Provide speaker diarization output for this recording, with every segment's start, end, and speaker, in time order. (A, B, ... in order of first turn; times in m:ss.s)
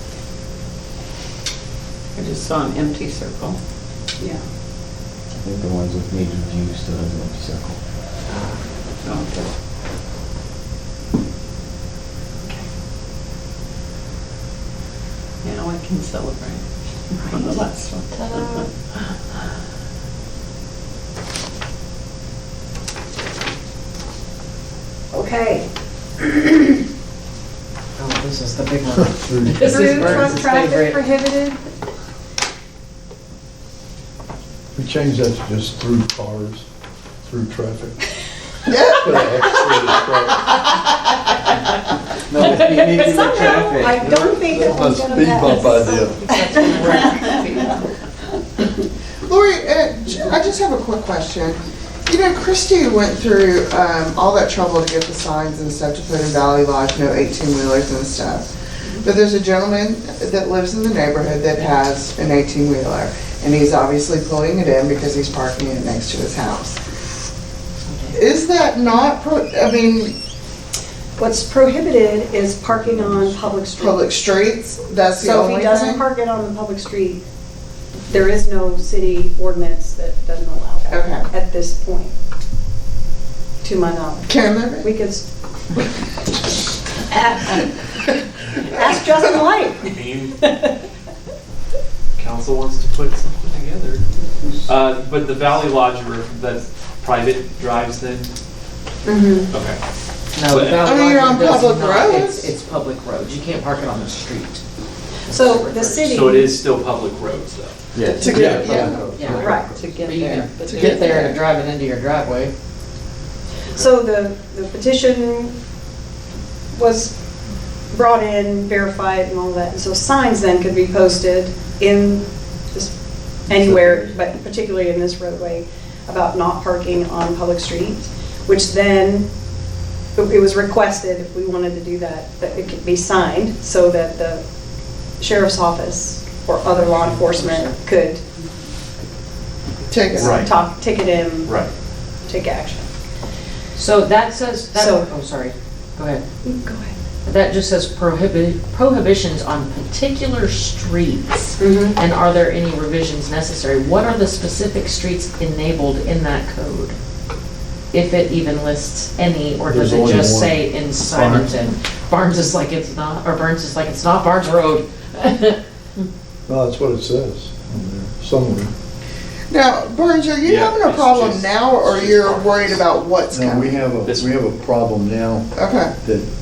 0:02.2-0:03.6 A
0:05.3-0:07.8 B
0:09.0-0:09.5 A
0:15.4-0:18.6 A
0:18.2-0:18.6 C
0:25.1-0:25.6 D
0:26.2-0:26.7 D
0:28.0-0:31.0 C
0:29.0-0:30.4 E
0:29.6-0:31.6 D
0:34.7-0:36.6 E
0:37.2-0:38.0 E
0:38.7-0:40.5 E
0:38.7-0:40.8 F
0:42.3-0:42.9 E
0:42.4-0:43.5 C
0:42.5-0:44.4 B
0:42.8-0:47.1 D
0:44.1-0:46.2 E
0:45.3-0:47.8 C
0:49.2-1:06.8 F
1:07.9-1:08.2 C
1:08.1-1:10.1 F
1:11.2-1:14.0 D
1:13.8-1:16.0 F
1:15.2-1:17.2 D
1:18.1-1:22.1 D
1:20.9-1:21.2 F
1:23.6-1:25.2 D
1:24.3-1:24.9 F
1:27.1-1:27.6 D
1:28.6-1:30.8 D
1:29.8-1:30.3 G
1:32.2-1:34.0 G
1:34.6-1:38.3 G
1:39.0-1:39.5 D
1:39.5-1:39.8 G
1:40.3-1:44.6 C
1:40.4-1:40.9 G
1:40.8-1:42.5 F
1:45.3-1:45.8 C
1:45.3-1:46.5 D
1:45.4-1:48.9 G
1:47.9-1:49.9 B
1:48.2-1:49.0 F
1:49.0-1:52.5 C
1:49.4-1:49.7 D
1:49.6-1:51.3 A
1:50.6-1:51.4 F
1:53.7-1:55.5 D
1:56.7-1:57.1 D
1:57.9-2:02.9 D
2:03.5-2:09.3 D
2:10.2-2:14.4 D
2:15.2-2:18.2 D
2:16.9-2:17.7 C
2:19.9-2:20.4 F
2:20.1-2:21.5 D
2:20.2-2:20.5 G
2:21.4-2:21.7 G
2:22.2-2:22.9 D
2:23.7-2:26.2 C
2:24.7-2:25.1 D
2:26.4-2:26.9 D
2:27.2-2:37.0 C
2:31.6-2:32.0 D
2:37.9-2:45.6 C
2:39.7-2:41.5 E
2:46.5-2:48.7 E
2:49.5-2:53.8 F
2:50.4-2:52.8 G
2:53.3-2:56.3 E
2:54.0-2:54.4 G
2:55.5-2:55.9 F